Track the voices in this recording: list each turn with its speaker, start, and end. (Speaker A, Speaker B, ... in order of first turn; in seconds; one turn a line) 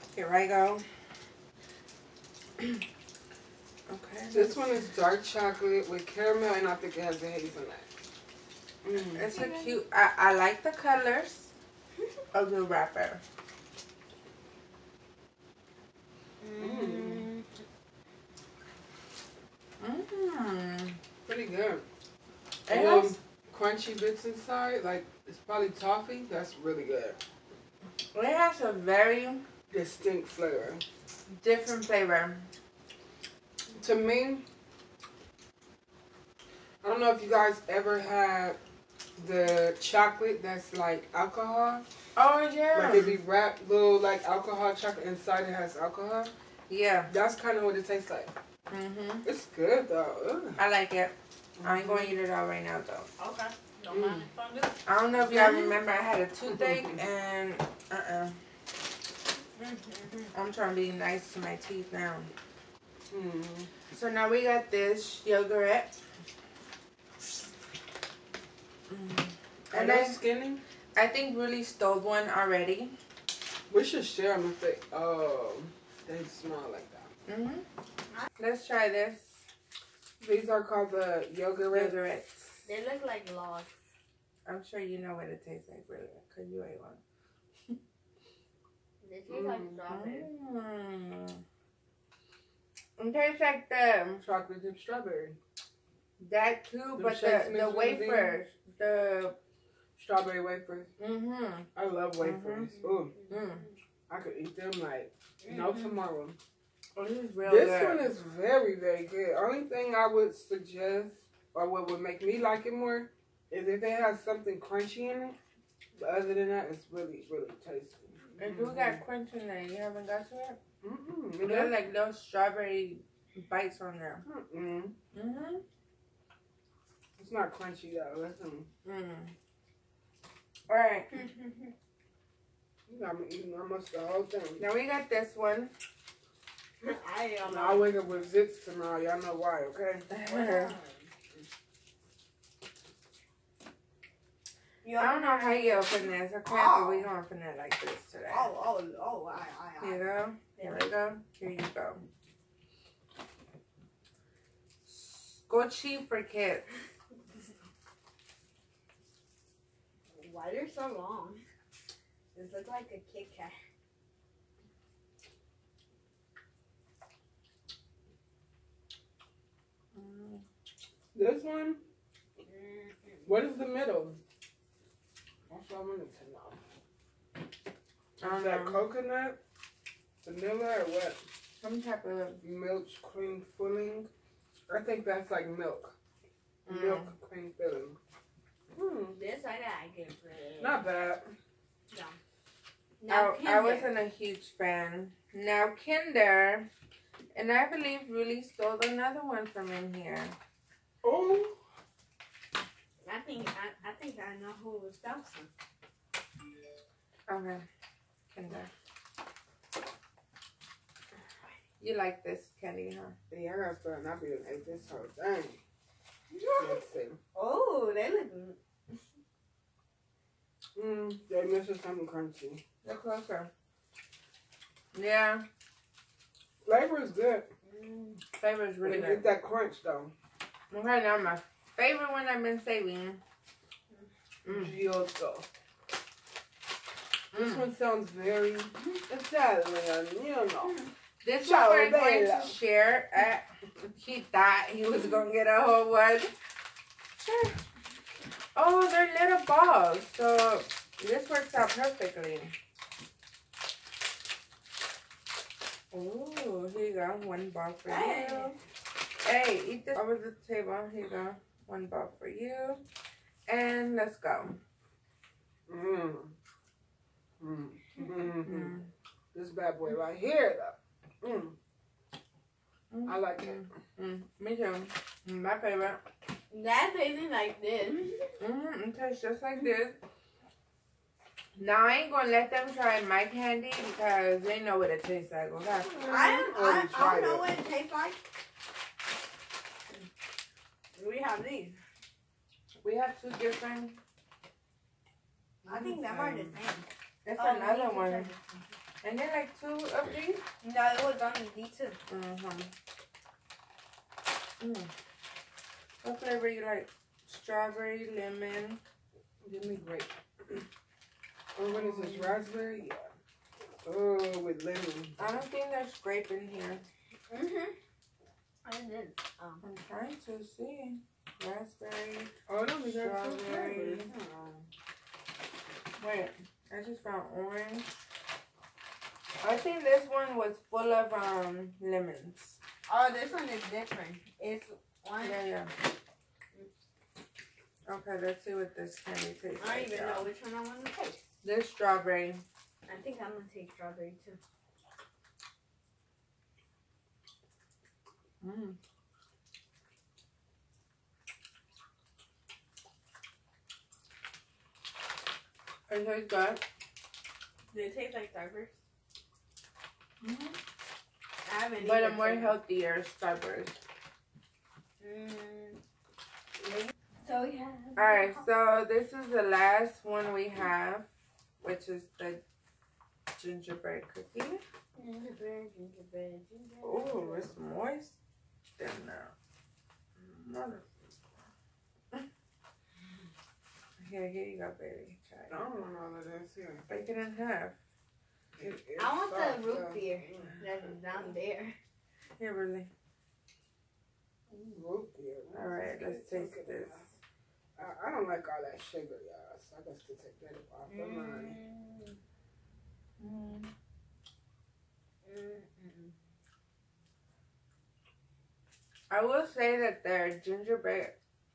Speaker A: 0.1-0.8
Speaker A: 3.9-4.9
Speaker B: 4.3-7.9
Speaker B: 8.8-9.3
Speaker A: 9.1-11.5
Speaker C: 9.2-9.8
Speaker A: 12.3-13.2
Speaker C: 16.4-17.5
Speaker B: 16.6-17.3
Speaker A: 19.8-21.0
Speaker B: 21.2-21.9
Speaker A: 22.7-23.2
Speaker B: 22.7-27.2
Speaker A: 28.1-29.4
Speaker B: 29.7-30.8
Speaker A: 31.3-32.5
Speaker B: 33.8-34.4
Speaker B: 36.8-38.6
Speaker B: 39.2-41.8
Speaker A: 42.2-43.2
Speaker B: 42.7-46.3
Speaker A: 46.7-47.1
Speaker B: 47.1-48.3
Speaker A: 48.7-49.3
Speaker B: 49.2-50.6
Speaker A: 50.6-53.1
Speaker B: 51.6-52.2
Speaker C: 53.2-55.8
Speaker B: 53.9-54.3
Speaker A: 54.9-58.4
Speaker C: 59.6-60.3
Speaker A: 60.3-62.3
Speaker B: 63.1-63.7
Speaker A: 63.9-66.0
Speaker A: 68.9-70.2
Speaker B: 69.7-70.6
Speaker A: 71.0-73.0
Speaker B: 73.7-77.1
Speaker A: 77.3-77.7
Speaker A: 78.4-79.5
Speaker B: 80.2-82.0
Speaker A: 81.7-82.6
Speaker C: 82.7-83.7
Speaker A: 84.5-87.0
Speaker C: 89.0-90.3
Speaker B: 89.3-89.7
Speaker A: 89.9-91.4
Speaker A: 93.0-94.2
Speaker B: 94.2-95.4
Speaker A: 96.2-99.4
Speaker B: 97.0-98.3
Speaker B: 100.0-100.9
Speaker A: 101.0-102.7
Speaker B: 101.8-103.1
Speaker C: 102.8-103.4
Speaker A: 103.3-103.7
Speaker B: 104.1-106.4
Speaker C: 105.4-106.0
Speaker A: 107.0-108.1
Speaker B: 107.4-115.4
Speaker B: 116.0-119.0
Speaker A: 118.4-120.6
Speaker B: 120.8-121.8
Speaker A: 121.4-124.2
Speaker B: 124.2-125.0
Speaker A: 125.1-125.6
Speaker B: 127.2-128.7
Speaker A: 128.8-129.3
Speaker A: 130.7-131.3
Speaker C: 131.1-131.7
Speaker B: 132.9-134.6
Speaker A: 134.6-135.7
Speaker C: 136.8-138.0
Speaker B: 137.4-140.1
Speaker A: 140.1-140.7
Speaker C: 140.2-141.2
Speaker C: 144.8-147.1
Speaker A: 145.0-148.5
Speaker C: 148.3-150.9
Speaker A: 149.8-152.0
Speaker A: 154.9-156.7
Speaker C: 160.2-161.4
Speaker C: 162.3-163.6
Speaker A: 169.9-170.4
Speaker B: 171.1-171.8
Speaker C: 172.4-173.3
Speaker B: 173.3-174.2
Speaker B: 175.5-176.6
Speaker A: 178.2-178.9
Speaker B: 178.2-179.4
Speaker B: 180.2-181.2
Speaker A: 181.6-182.4
Speaker B: 182.4-184.1
Speaker B: 184.7-185.9
Speaker A: 186.7-187.1
Speaker B: 186.7-188.0
Speaker B: 188.7-189.2
Speaker C: 189.1-190.8
Speaker B: 190.6-191.3
Speaker C: 191.9-192.2
Speaker C: 193.0-193.9
Speaker A: 193.1-196.7
Speaker A: 197.3-200.4
Speaker B: 201.0-201.6
Speaker C: 203.0-205.5
Speaker A: 207.3-207.7
Speaker A: 208.3-208.7
Speaker A: 211.8-213.2
Speaker B: 213.3-215.6
Speaker C: 216.3-216.8
Speaker B: 216.6-217.2
Speaker C: 217.3-218.6
Speaker B: 220.8-222.6
Speaker A: 222.8-223.5
Speaker A: 224.9-225.4
Speaker B: 226.6-227.5
Speaker C: 227.7-228.2
Speaker A: 228.4-229.3
Speaker B: 228.8-230.1
Speaker A: 230.7-233.2
Speaker A: 234.4-234.7
Speaker B: 234.5-235.5
Speaker B: 237.3-240.8
Speaker A: 237.3-237.7
Speaker A: 241.2-246.3
Speaker B: 241.4-242.6
Speaker A: 247.2-247.6
Speaker A: 248.6-252.5
Speaker A: 255.9-258.6
Speaker C: 257.9-258.6
Speaker A: 259.2-262.8
Speaker A: 263.5-264.6
Speaker B: 265.7-266.3
Speaker B: 267.4-268.8
Speaker A: 268.4-268.9
Speaker B: 269.3-271.6
Speaker A: 272.9-276.0
Speaker B: 273.1-273.6
Speaker C: 276.5-278.3
Speaker A: 278.4-280.0
Speaker A: 281.6-286.2
Speaker B: 285.9-287.5
Speaker C: 286.0-288.2
Speaker C: 291.0-291.8
Speaker A: 292.8-294.0
Speaker C: 295.6-298.7
Speaker A: 295.7-296.5
Speaker A: 297.2-298.3
Speaker A: 299.0-300.4
Speaker C: 300.6-302.0
Speaker A: 302.1-302.7
Speaker A: 304.6-304.9
Speaker A: 306.0-308.8
Speaker B: 309.4-310.6
Speaker B: 311.6-313.1
Speaker A: 311.7-312.5
Speaker B: 313.8-315.2
Speaker A: 315.2-316.9
Speaker C: 317.3-317.8
Speaker C: 318.6-319.6
Speaker A: 319.6-324.1
Speaker B: 322.5-324.7
Speaker A: 326.0-327.9
Speaker A: 329.4-332.6
Speaker C: 332.9-335.5
Speaker A: 335.2-335.7
Speaker A: 337.9-340.3
Speaker C: 339.6-341.2
Speaker A: 341.4-342.4
Speaker C: 342.9-344.4
Speaker A: 348.4-348.8
Speaker A: 355.9-356.6
Speaker C: 357.7-358.8
Speaker A: 360.2-360.6
Speaker C: 361.4-362.6
Speaker A: 361.8-363.8
Speaker C: 365.0-365.8
Speaker C: 367.2-368.5
Speaker A: 368.0-371.1
Speaker A: 371.6-372.4
Speaker A: 373.3-374.6
Speaker C: 375.0-377.5
Speaker A: 376.8-378.2
Speaker A: 378.8-379.3
Speaker A: 380.3-380.9
Speaker A: 384.0-385.6
Speaker B: 385.5-386.9
Speaker A: 386.9-387.8
Speaker B: 388.6-390.6
Speaker C: 389.0-391.8
Speaker A: 392.4-392.9
Speaker B: 394.5-397.1
Speaker A: 395.5-397.0
Speaker B: 397.8-401.6
Speaker C: 400.9-402.2
Speaker A: 403.2-403.7
Speaker C: 405.3-406.1
Speaker A: 409.1-411.1